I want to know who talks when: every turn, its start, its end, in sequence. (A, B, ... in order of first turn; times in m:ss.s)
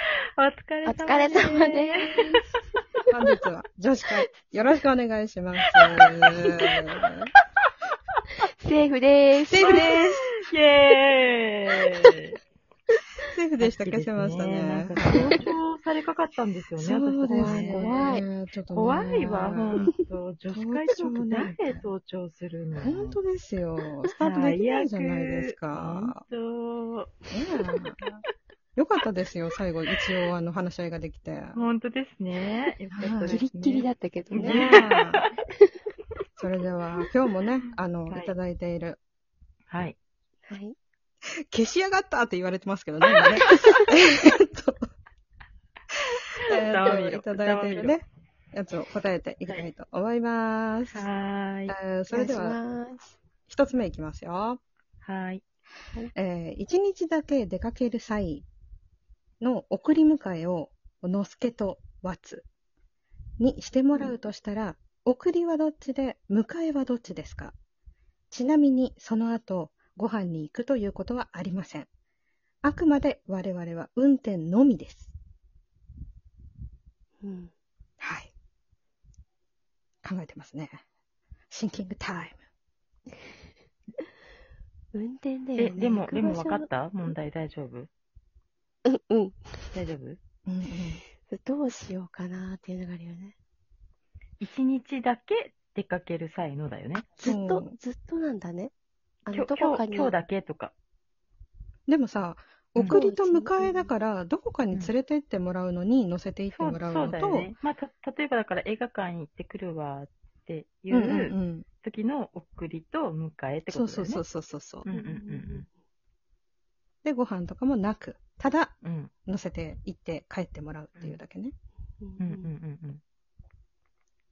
0:00.4-0:02.6 A
0:00.8-0:02.4 B
0:03.1-0:07.3 C
0:05.8-0:06.0 A
0:08.6-0:09.8 B
0:09.5-0:10.3 C
0:09.6-0:12.4 A
0:13.3-0:15.3 C
0:13.6-0:23.1 A
0:15.1-0:15.4 B
0:16.8-0:19.9 C
0:17.3-0:18.2 B
0:19.7-0:20.1 B
0:20.5-0:21.6 C
0:22.8-0:26.2 C
0:24.2-0:27.1 A
0:27.3-0:28.2 C
0:28.8-0:31.6 C
0:31.5-0:35.2 A
0:33.0-0:33.4 C
0:33.3-0:34.6 B
0:34.4-0:35.2 C
0:36.4-0:39.0 C
0:39.7-0:40.0 A
0:40.5-0:40.8 B
0:41.5-0:44.9 C
0:43.4-0:43.9 B
0:46.4-0:51.1 C
0:46.5-0:48.0 A
0:50.9-0:51.7 A
0:51.7-0:52.6 C
0:52.1-0:53.2 B
0:53.5-0:54.6 C
0:55.0-0:55.4 A
0:56.1-0:58.4 C
0:59.4-1:02.4 C
1:03.4-1:07.5 C
1:08.3-1:11.9 C
1:12.6-1:15.1 C
1:17.2-1:17.5 B
1:18.0-1:18.3 C
1:20.0-1:20.8 C
1:21.5-1:22.4 C
1:24.9-1:26.7 B
1:25.6-1:27.9 A
1:28.8-1:29.7 B
1:29.7-1:30.2 A
1:30.4-1:31.0 C
1:31.2-1:33.3 B
1:34.4-1:37.1 A
1:37.2-1:38.7 B
1:37.2-1:37.8 C
1:39.2-1:40.1 B
1:39.3-1:40.7 A
1:41.9-1:47.5 C
1:42.8-1:43.0 A
1:42.9-1:43.9 B
1:46.5-1:54.2 A
1:50.9-1:51.6 C
1:53.7-1:54.9 C
1:54.8-1:55.7 A
1:54.9-1:55.7 B
1:57.0-1:58.7 C
1:58.8-1:59.1 A
1:59.2-2:01.5 C
2:02.0-2:02.5 B
2:02.2-2:03.0 A